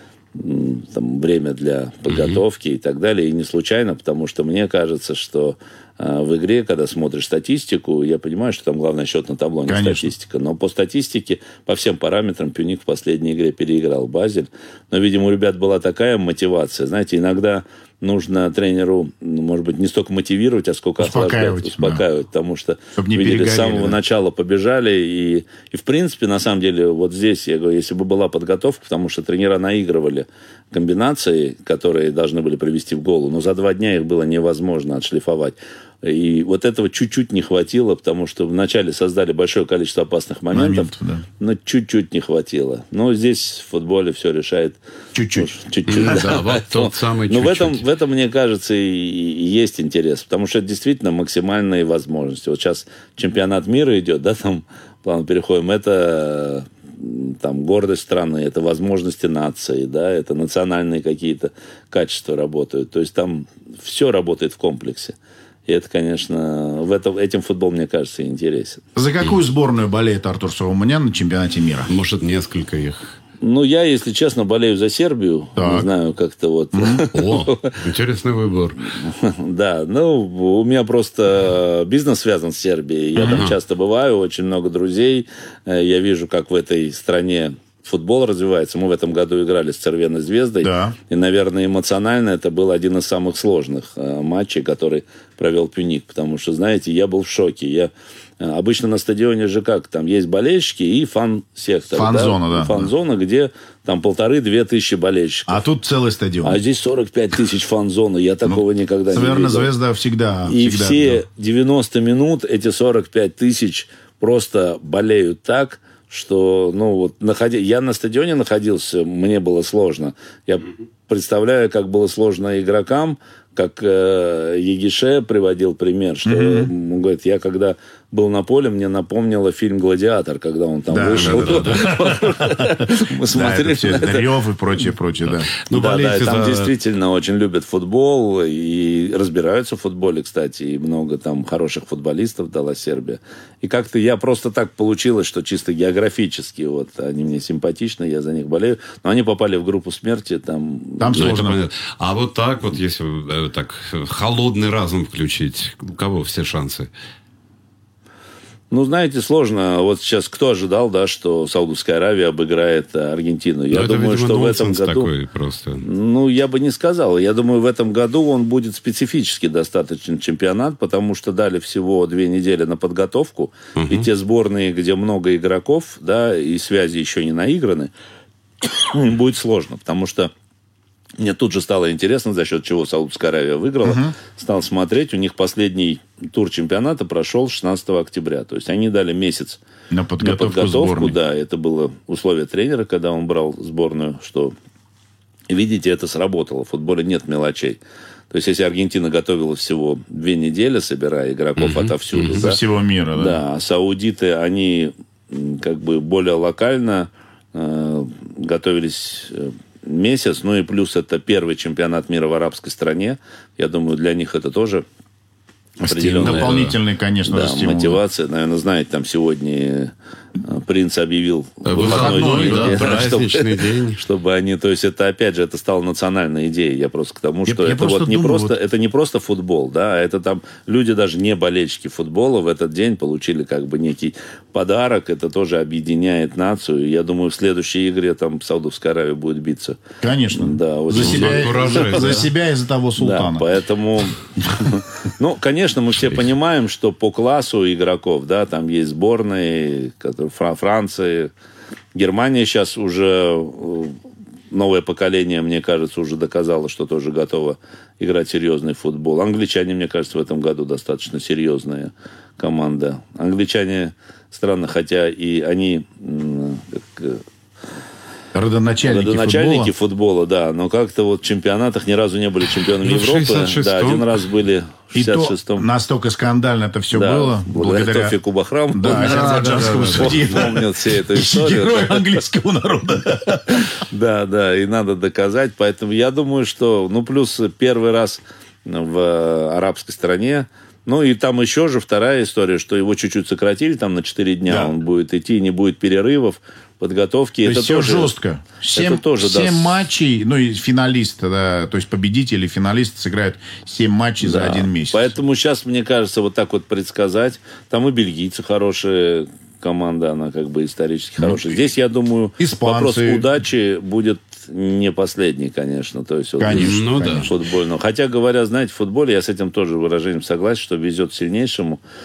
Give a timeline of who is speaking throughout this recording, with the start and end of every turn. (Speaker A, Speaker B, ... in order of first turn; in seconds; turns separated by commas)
Speaker A: 0.3-44.8, Speaker B: 2.1-2.4, Speaker C: 9.7-10.1, Speaker C: 21.0-22.0, Speaker C: 22.9-24.0, Speaker C: 40.5-41.2, Speaker C: 45.1-45.5, Speaker A: 45.3-65.1, Speaker B: 45.9-47.8, Speaker C: 46.0-46.4, Speaker A: 65.7-68.8, Speaker C: 68.9-71.9, Speaker B: 71.9-73.1, Speaker A: 73.4-77.8, Speaker C: 75.5-75.9, Speaker C: 76.7-77.0, Speaker B: 77.1-78.9, Speaker A: 79.0-105.6, Speaker C: 83.2-83.5, Speaker B: 83.2-83.5, Speaker C: 90.6-91.0, Speaker C: 101.9-102.9, Speaker C: 105.5-106.6, Speaker A: 106.4-109.7, Speaker C: 108.5-111.2, Speaker A: 110.5-134.3, Speaker C: 126.2-126.7, Speaker C: 130.9-136.4, Speaker B: 131.1-131.9, Speaker B: 135.7-136.7, Speaker A: 135.7-151.3, Speaker C: 151.0-151.6, Speaker B: 151.1-156.9, Speaker A: 158.7-165.1, Speaker B: 163.7-165.8, Speaker A: 165.8-177.9, Speaker B: 173.8-174.1, Speaker A: 178.6-180.3, Speaker A: 181.2-189.6, Speaker C: 183.8-184.1, Speaker C: 189.9-191.2, Speaker A: 190.2-194.5, Speaker A: 195.5-197.8, Speaker A: 198.3-202.6, Speaker B: 201.6-202.4, Speaker C: 202.3-203.4, Speaker A: 203.2-214.8, Speaker A: 215.8-216.7, Speaker C: 215.8-218.0, Speaker B: 216.2-216.8, Speaker A: 217.2-239.8, Speaker B: 221.7-224.0, Speaker C: 221.7-223.1, Speaker C: 227.5-228.5, Speaker C: 240.0-243.4, Speaker A: 240.3-242.2, Speaker B: 241.0-242.3, Speaker A: 243.0-251.3, Speaker A: 251.9-254.0, Speaker A: 254.5-267.2, Speaker C: 268.3-269.7, Speaker A: 268.8-275.7, Speaker B: 272.8-274.2, Speaker C: 274.9-278.1, Speaker A: 276.9-282.1, Speaker C: 278.7-283.7, Speaker B: 278.9-280.5, Speaker A: 283.5-298.1, Speaker C: 294.5-294.7, Speaker C: 297.4-305.1, Speaker A: 298.7-299.8, Speaker A: 304.2-321.8, Speaker C: 312.4-313.2, Speaker C: 316.4-317.3, Speaker B: 316.5-317.3